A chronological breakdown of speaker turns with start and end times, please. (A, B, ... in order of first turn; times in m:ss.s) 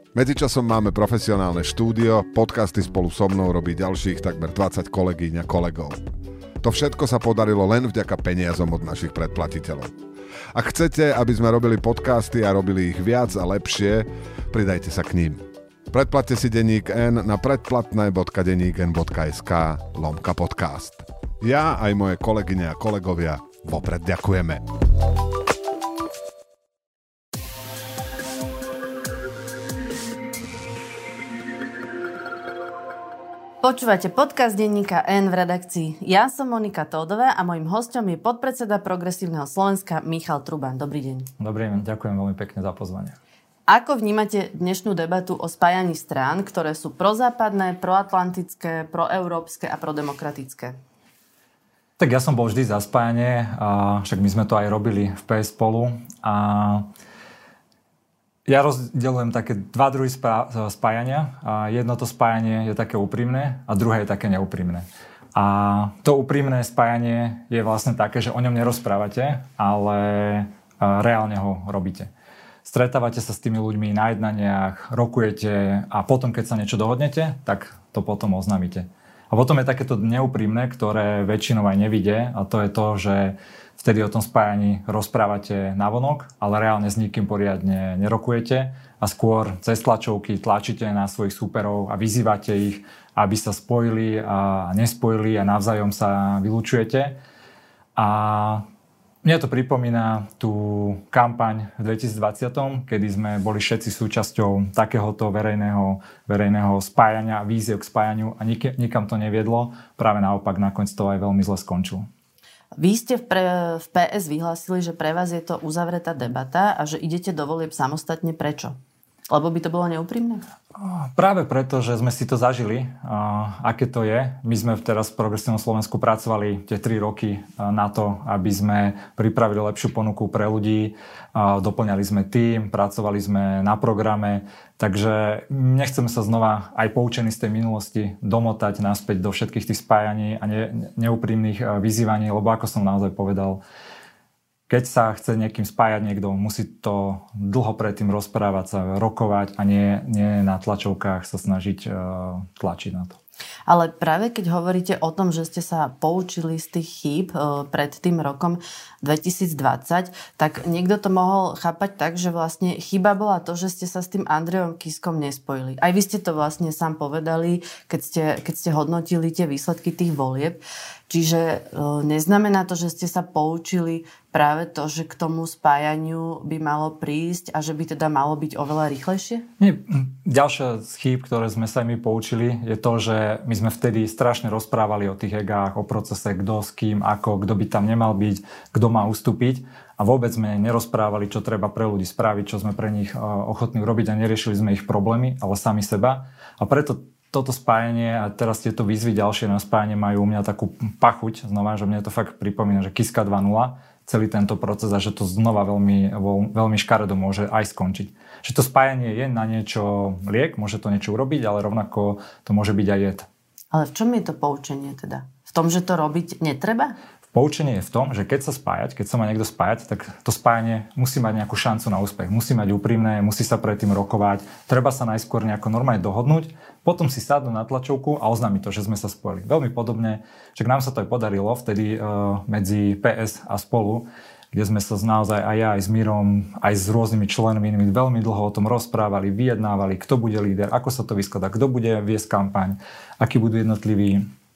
0:00.1-0:06.0 A
0:06.6-0:09.9 A
0:10.5-0:24.6 A
0:33.6-0:41.3 B
0:41.4-0:43.2 C
0:43.7-0:50.8 B
0:52.0-0:56.9 C
0:58.4-1:12.1 C
1:12.6-1:37.2 C
1:38.0-1:38.6 C
1:39.2-1:52.1 C
1:52.8-1:58.8 B
1:59.3-2:00.4 B
2:00.8-2:23.6 C
2:24.7-2:33.2 C
2:33.7-2:59.5 B
2:59.6-3:33.3 C
3:33.7-3:36.9 B
3:37.3-4:04.2 C